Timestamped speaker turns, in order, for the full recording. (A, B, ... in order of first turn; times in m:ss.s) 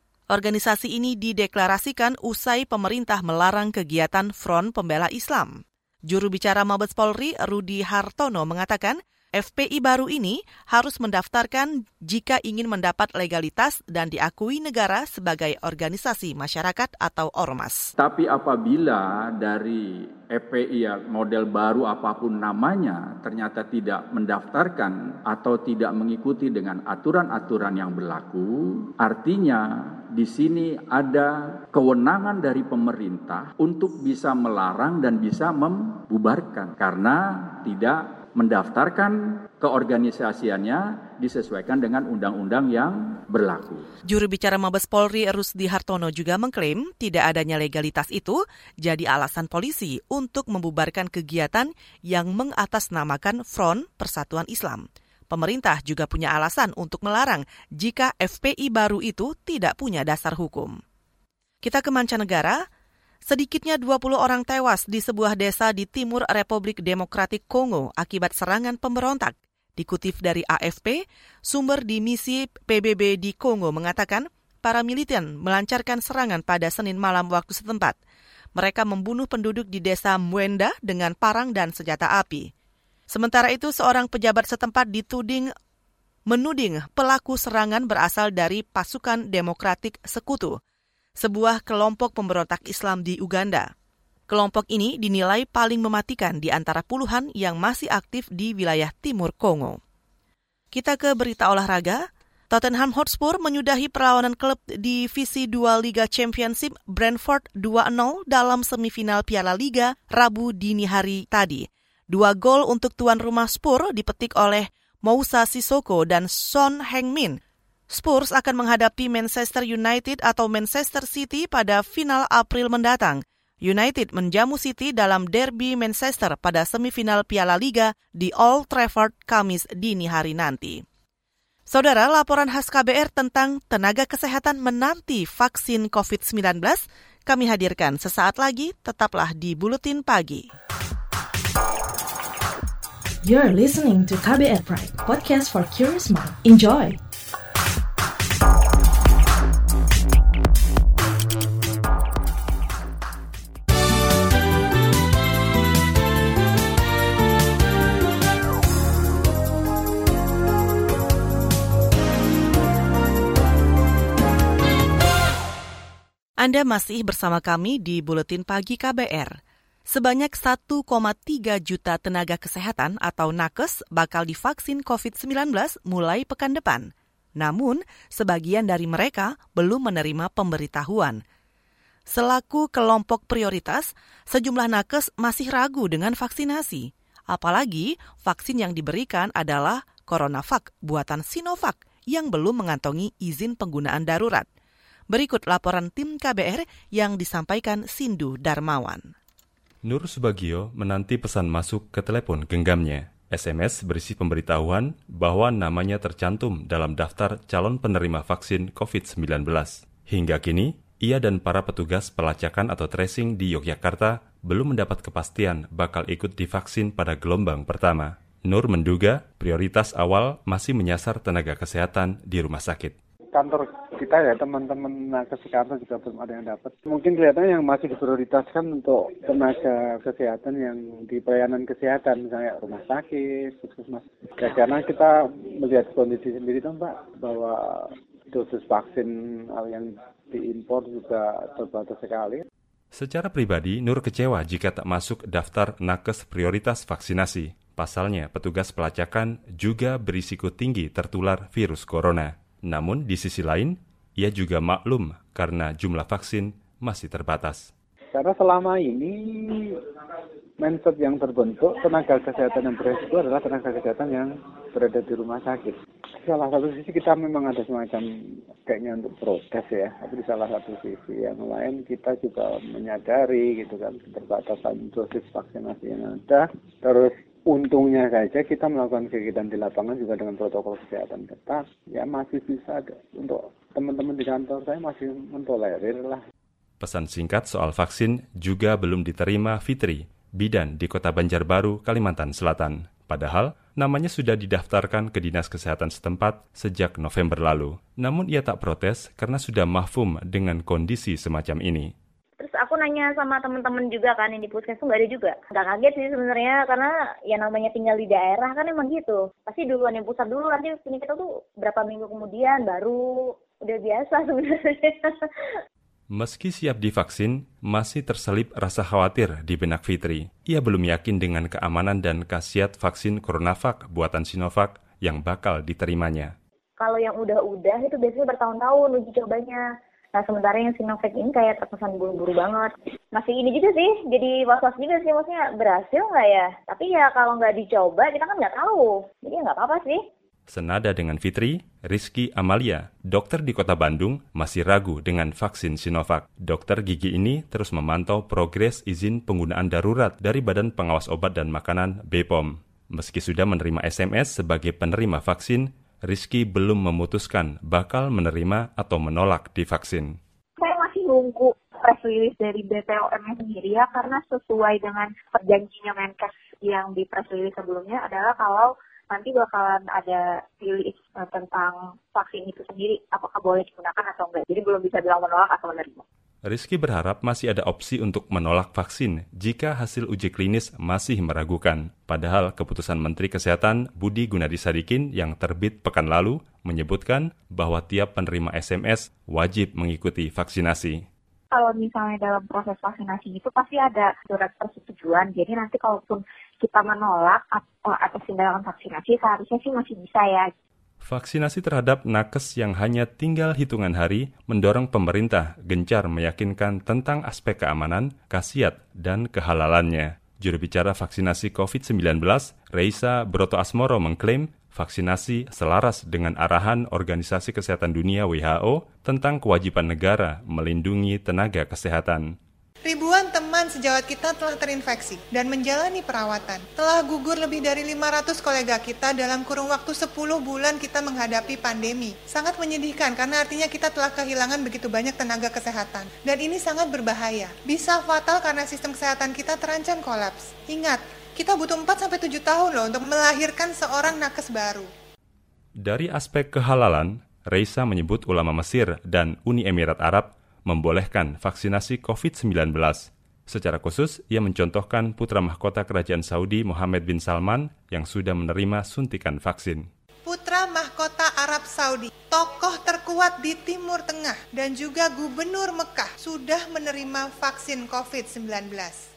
0:00.3-0:17.8 A
0:18.0-0:43.9 B
0:44.1-1:00.8 A
1:01.6-1:02.6 A
1:03.3-1:18.0 A
1:18.6-1:22.5 A
1:23.1-1:25.5 A
1:26.3-1:30.6 A
1:31.2-1:33.7 A
1:34.3-1:39.8 A
1:40.7-1:57.4 A
1:57.9-2:10.8 A
2:11.7-2:20.5 A
2:23.2-2:27.0 C
2:46.4-3:01.2 A
3:02.1-3:14.5 A
3:15.1-3:19.1 A
3:19.8-3:43.0 D
3:43.3-4:02.4 E
4:02.9-4:17.7 D
4:18.1-4:19.8 E
4:20.6-4:28.1 E
4:28.6-4:46.2 E
4:46.8-5:01.9 D
5:02.4-5:15.3 F
5:16.1-5:26.3 D
5:26.8-5:29.6 F
5:30.2-5:40.0 F
5:40.5-6:00.2 D
6:00.6-6:16.0 G
6:16.5-6:31.0 D
6:31.5-6:40.5 G
6:41.0-7:02.3 D
7:02.9-7:24.9 H
7:25.8-7:39.9 D
7:40.3-7:49.1 H